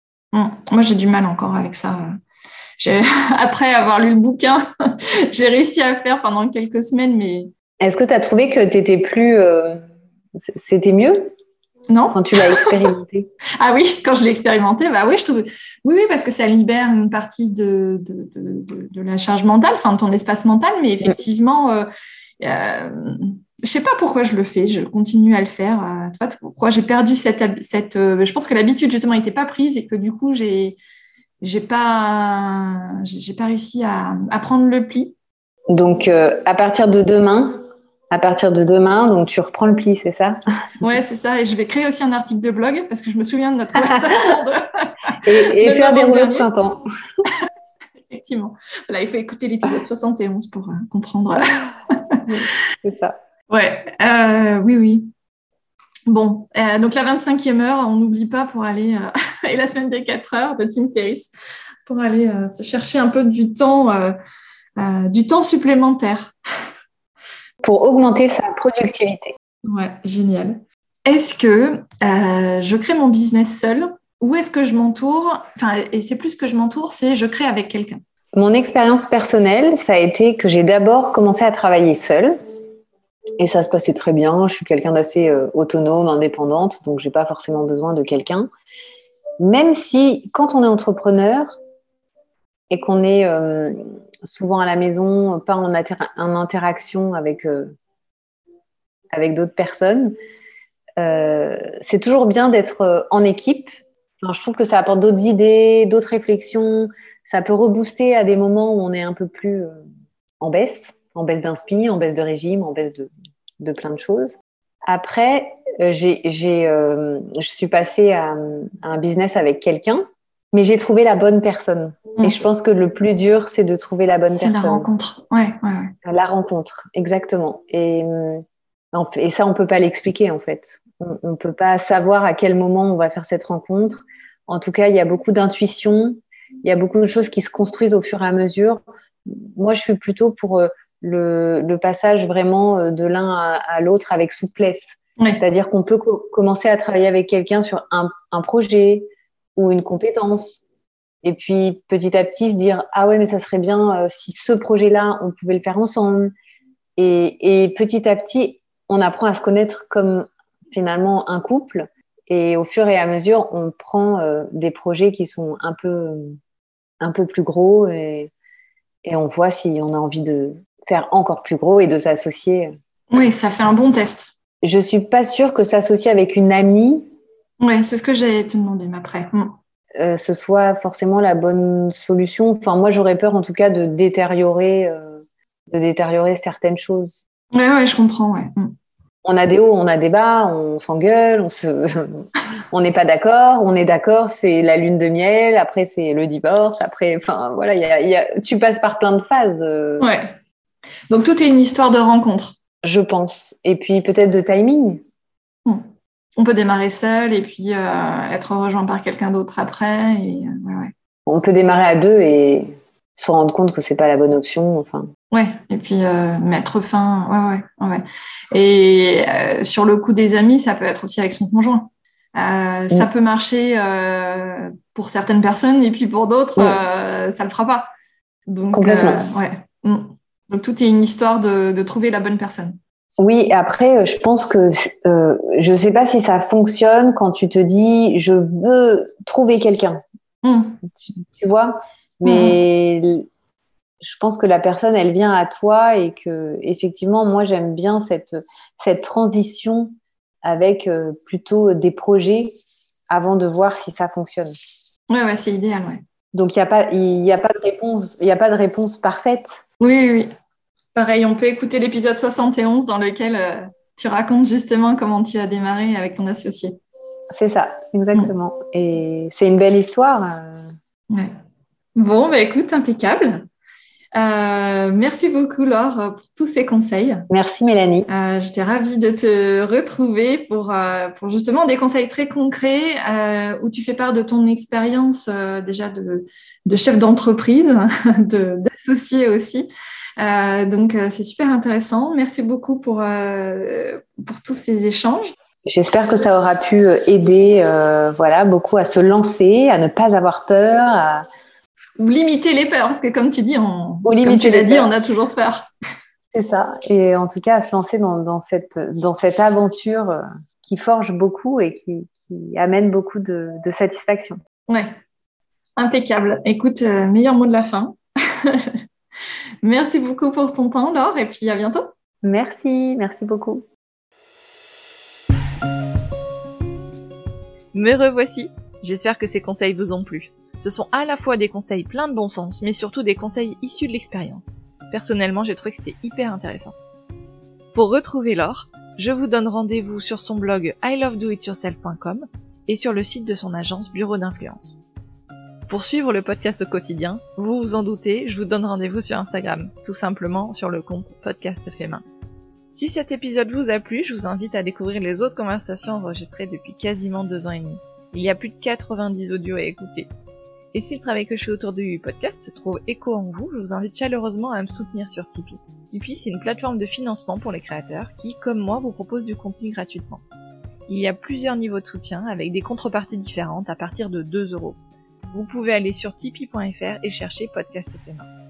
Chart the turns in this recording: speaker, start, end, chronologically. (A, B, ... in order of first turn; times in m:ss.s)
0:00.3-0:02.0 A
0:02.8-0:04.6 A
0:05.3-0:07.5 A
0:07.8-0:09.8 B
0:10.4-0:11.3 B
0:11.9-0:12.8 A
0:12.1-0:13.3 B
0:13.6-0:21.9 A
0:22.4-0:30.8 A
0:31.4-0:35.1 A
0:35.7-0:37.6 B
0:38.1-0:40.9 B
0:40.8-0:46.5 A
0:43.8-0:44.0 B
0:45.2-0:46.8 B
0:48.1-0:52.2 A
0:52.3-0:53.2 B
0:53.5-0:55.1 A
0:56.1-1:01.3 A
1:01.8-1:04.1 A
1:04.8-1:06.3 A
1:07.6-1:09.3 B
1:09.7-1:18.0 A
1:18.3-1:22.4 B
1:23.4-1:28.5 B
1:29.4-1:31.5 B
1:32.7-1:37.7 B
1:39.1-1:40.1 B
1:41.0-1:43.7 B
1:44.2-1:49.7 B
1:50.4-1:53.1 B
1:53.6-2:04.9 B
2:04.3-2:05.9 A
2:06.0-2:08.4 B
2:08.9-2:30.6 B
2:31.2-2:36.3 B
2:37.0-2:46.4 B
2:47.0-2:48.3 B
2:49.0-2:52.7 B
2:53.1-2:54.3 A
2:54.6-2:57.1 B
2:57.6-2:59.5 A
3:00.0-3:07.2 B
3:07.5-3:08.7 A
3:09.2-3:20.1 B
3:20.0-3:20.3 A
3:21.1-3:22.6 A
3:22.8-3:25.0 B
3:25.6-3:30.9 A
3:31.2-3:35.1 B
3:35.3-3:47.9 A
3:48.5-3:52.8 A
3:48.7-3:49.2 B
3:53.2-4:00.0 B
4:00.4-4:00.8 A
4:00.9-4:03.3 B
4:02.2-4:02.6 A
4:04.0-4:09.9 B
4:10.4-4:12.6 B
4:13.1-4:14.5 B
4:15.1-4:16.0 A
4:16.3-4:19.4 B
4:19.8-4:20.3 A
4:20.9-4:26.8 A
4:27.3-4:30.7 B
4:32.0-4:33.5 A
4:34.2-4:37.3 A
4:37.3-4:38.1 B
4:38.1-4:49.7 A
4:50.2-4:55.3 A
4:55.6-5:01.2 B
5:02.0-5:05.7 A
5:04.0-5:04.9 B
5:06.3-5:14.4 B
5:15.8-5:18.6 A
5:19.6-5:21.9 A
5:22.2-5:23.6 B
5:27.7-5:36.8 C
5:37.7-5:44.8 C
5:45.7-5:52.0 C
5:52.7-6:00.1 C
6:00.7-6:10.2 C
6:10.9-6:14.8 C
6:15.3-6:18.3 C